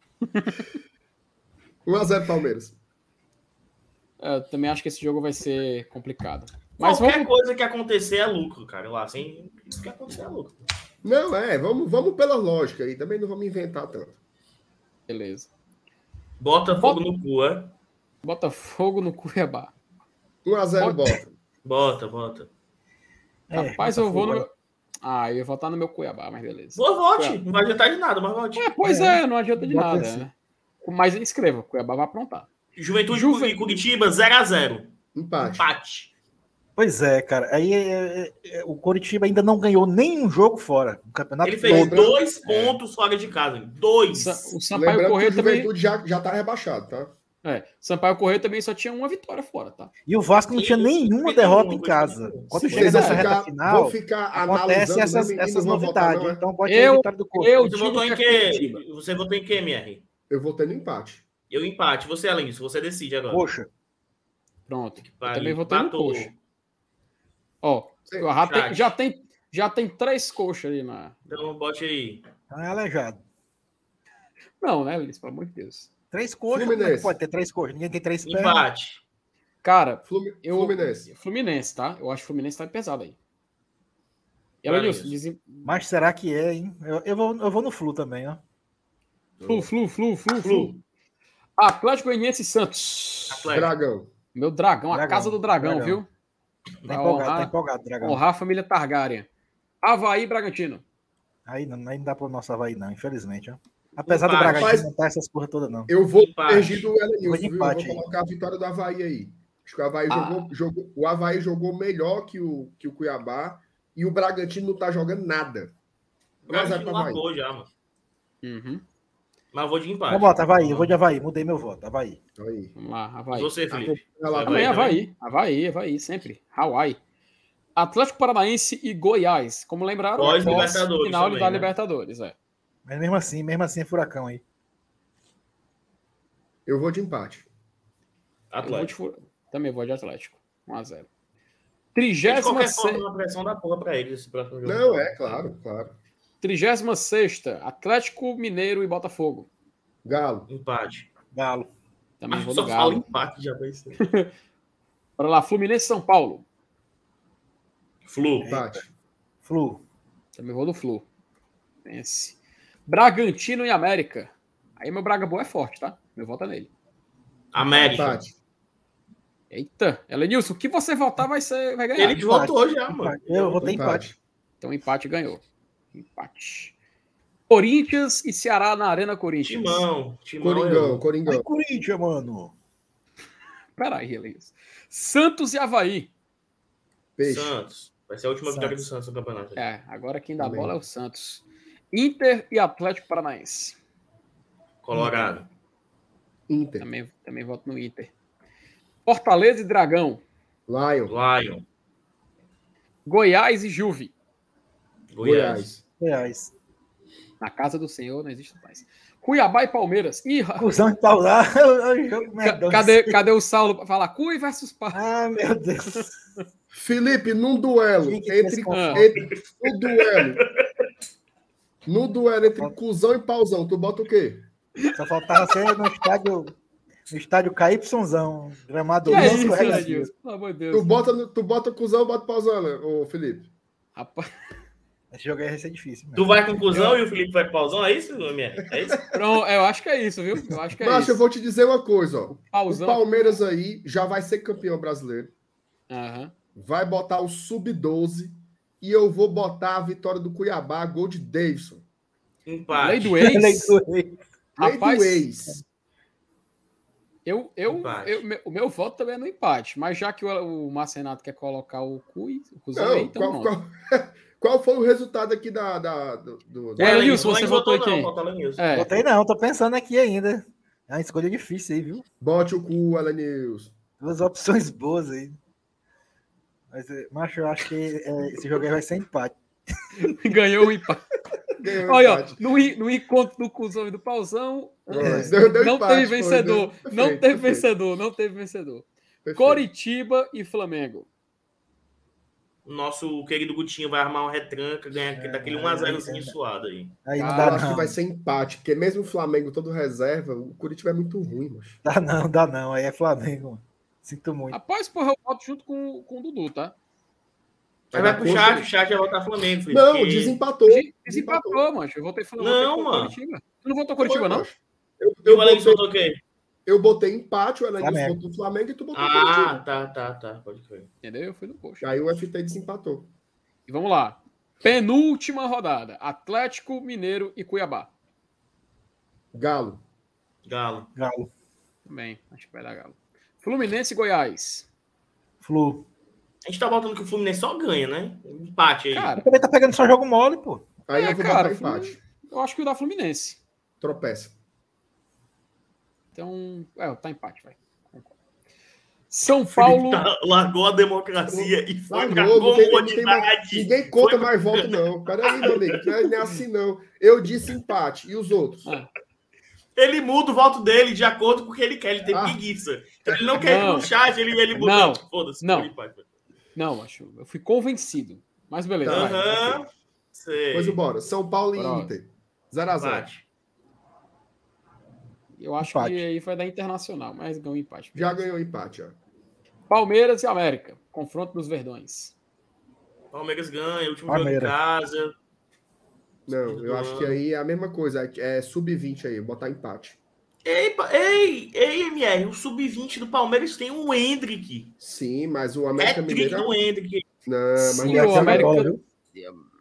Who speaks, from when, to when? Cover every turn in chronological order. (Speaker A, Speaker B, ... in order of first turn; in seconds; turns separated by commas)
Speaker A: 0.3-0.6, Speaker B: 1.9-2.8, Speaker A: 4.2-7.3, Speaker C: 6.8-10.6, Speaker B: 11.0-14.2, Speaker A: 15.1-15.5, Speaker C: 16.4-17.7, Speaker A: 18.2-19.7, Speaker B: 20.4-21.3, Speaker A: 20.8-21.1, Speaker C: 21.6-22.5, Speaker D: 23.5-24.4, Speaker A: 23.5-24.5, Speaker A: 25.0-27.4, Speaker C: 26.7-28.7, Speaker A: 28.6-32.5, Speaker D: 28.8-30.2, Speaker C: 32.7-36.1, Speaker A: 33.1-33.8, Speaker B: 35.1-35.6, Speaker D: 36.8-42.1, Speaker C: 41.4-44.6, Speaker B: 41.6-42.8, Speaker A: 44.1-45.7, Speaker B: 44.7-47.1, Speaker A: 47.4-49.9, Speaker D: 50.1-57.7, Speaker C: 50.5-52.6, Speaker A: 52.6-53.3, Speaker B: 52.7-56.4, Speaker A: 56.6-58.8, Speaker C: 57.6-60.0, Speaker B: 60.3-61.2, Speaker C: 61.5-63.5, Speaker D: 63.3-63.7, Speaker A: 64.7-66.3, Speaker C: 65.0-66.3, Speaker A: 67.6-71.2, Speaker C: 68.3-68.9, Speaker C: 71.3-72.3, Speaker D: 72.5-73.2, Speaker A: 74.6-75.9, Speaker D: 76.1-78.6, Speaker B: 76.5-77.1, Speaker C: 78.2-79.0, Speaker A: 79.6-83.2, Speaker B: 80.0-81.1, Speaker A: 84.6-85.8, Speaker C: 84.7-85.2, Speaker D: 85.6-88.4, Speaker B: 89.4-89.7, Speaker A: 89.5-90.7, Speaker C: 90.3-90.8, Speaker A: 91.6-93.5, Speaker C: 93.3-93.7, Speaker B: 93.5-94.1, Speaker A: 94.3-96.1, Speaker D: 94.9-96.0, Speaker D: 96.8-98.2, Speaker A: 96.9-99.3, Speaker A: 99.8-100.8, Speaker D: 101.5-105.9, Speaker C: 104.0-104.7, Speaker B: 104.4-104.9, Speaker B: 105.9-115.7, Speaker C: 106.2-106.9, Speaker D: 107.2-108.0, Speaker A: 110.1-110.5, Speaker C: 116.5-117.7, Speaker B: 116.5-117.2, Speaker A: 118.4-118.8, Speaker C: 119.5-121.0, Speaker D: 120.1-122.2, Speaker B: 122.4-122.7, Speaker A: 122.8-123.5, Speaker C: 123.3-125.0, Speaker B: 123.7-124.9, Speaker A: 124.4-127.0, Speaker A: 127.8-132.3, Speaker C: 130.2-131.7, Speaker D: 132.8-134.4, Speaker B: 136.7-137.5, Speaker C: 138.5-138.9, Speaker A: 138.6-141.1, Speaker A: 141.9-143.0, Speaker C: 142.2-145.4, Speaker B: 144.6-145.9, Speaker A: 146.4-149.5, Speaker B: 150.0-150.5, Speaker C: 150.5-151.1, Speaker D: 151.3-151.7, Speaker A: 152.2-153.0, Speaker C: 152.3-154.0, Speaker A: 154.0-154.3, Speaker A: 155.2-156.4, Speaker C: 158.0-158.5, Speaker D: 158.4-158.8, Speaker B: 158.4-158.9, Speaker D: 159.4-159.8, Speaker A: 160.3-161.1, Speaker A: 161.8-166.7, Speaker C: 167.5-168.2, Speaker B: 167.6-168.3, Speaker A: 169.5-172.2, Speaker C: 172.0-173.8, Speaker D: 172.1-174.1, Speaker B: 173.6-174.2, Speaker A: 174.6-176.7, Speaker A: 177.5-179.8, Speaker C: 179.4-181.0, Speaker B: 180.4-181.5, Speaker D: 181.3-182.5, Speaker A: 183.8-186.1, Speaker B: 187.2-187.6, Speaker C: 187.2-189.6, Speaker D: 188.5-188.8, Speaker A: 189.6-193.8, Speaker B: 190.4-190.7, Speaker C: 194.8-195.5, Speaker B: 194.9-195.3, Speaker B: 196.5-196.9, Speaker A: 196.8-198.1, Speaker A: 199.1-200.2, Speaker B: 200.7-201.1, Speaker C: 201.1-201.6, Speaker A: 203.1-204.1, Speaker C: 205.1-205.7, Speaker B: 205.2-205.8, Speaker D: 206.0-206.5, Speaker A: 207.4-210.7, Speaker D: 210.6-213.2, Speaker A: 212.4-215.0, Speaker D: 214.9-216.2, Speaker B: 216.7-220.4, Speaker D: 218.0-219.2, Speaker A: 218.7-219.0, Speaker C: 219.7-220.6, Speaker B: 221.8-224.5, Speaker D: 224.9-226.6, Speaker D: 227.1-230.1, Speaker A: 229.0-230.9, Speaker B: 229.1-229.9, Speaker B: 230.7-233.5, Speaker A: 233.9-234.3, Speaker D: 235.1-236.3, Speaker C: 236.1-239.0, Speaker A: 239.1-241.2, Speaker B: 240.8-245.3, Speaker A: 242.3-243.4, Speaker A: 245.9-246.3, Speaker B: 246.6-251.8, Speaker C: 252.4-253.2, Speaker A: 252.7-253.8, Speaker D: 253.2-254.2, Speaker A: 254.6-255.2, Speaker B: 254.6-255.6, Speaker A: 257.2-263.5, Speaker C: 257.6-258.2, Speaker B: 262.7-267.4, Speaker C: 266.8-268.6, Speaker A: 266.8-268.9, Speaker D: 268.7-272.0, Speaker B: 272.2-273.7, Speaker D: 274.0-275.4, Speaker D: 276.7-279.4, Speaker A: 280.0-281.1, Speaker B: 281.6-282.4, Speaker A: 281.6-291.1, Speaker B: 284.9-287.7, Speaker D: 284.9-285.3, Speaker B: 289.2-289.6, Speaker C: 292.6-297.0, Speaker D: 295.1-296.4, Speaker D: 297.0-298.0, Speaker A: 297.1-297.7, Speaker B: 297.3-301.8, Speaker D: 301.8-304.6, Speaker A: 304.5-306.7, Speaker B: 307.9-308.7, Speaker C: 307.9-310.4, Speaker B: 309.7-311.6, Speaker A: 310.6-314.5, Speaker C: 312.4-313.1, Speaker B: 314.0-315.9, Speaker C: 315.2-316.2, Speaker B: 316.6-319.6, Speaker D: 317.8-318.2, Speaker C: 318.9-320.9, Speaker A: 321.0-321.9, Speaker B: 321.8-323.1, Speaker A: 323.7-327.9, Speaker B: 329.3-329.8, Speaker C: 330.4-330.9, Speaker D: 330.9-331.3, Speaker A: 331.9-334.7, Speaker D: 335.4-335.9, Speaker C: 336.4-339.1, Speaker A: 338.9-339.2, Speaker D: 339.1-340.6, Speaker B: 340.9-342.0, Speaker A: 340.9-343.4, Speaker B: 343.8-344.3, Speaker A: 346.1-348.1, Speaker A: 349.1-350.1, Speaker C: 349.5-355.6, Speaker B: 351.3-358.7, Speaker C: 359.8-366.1, Speaker B: 362.1-362.4, Speaker B: 363.0-363.9, Speaker A: 363.4-363.9, Speaker A: 364.5-365.7, Speaker A: 366.6-369.2, Speaker B: 368.8-369.6, Speaker C: 368.9-370.8, Speaker B: 370.5-373.1, Speaker A: 371.5-371.9, Speaker C: 372.7-373.2, Speaker A: 375.3-378.2, Speaker D: 375.6-376.0, Speaker B: 377.9-378.9, Speaker A: 379.7-382.1, Speaker C: 383.1-385.1, Speaker D: 384.1-384.5, Speaker B: 386.3-390.0, Speaker C: 386.4-387.2, Speaker C: 390.4-394.7, Speaker B: 394.8-396.6, Speaker C: 395.8-397.1, Speaker B: 397.2-398.7, Speaker D: 397.6-398.8, Speaker A: 397.8-399.3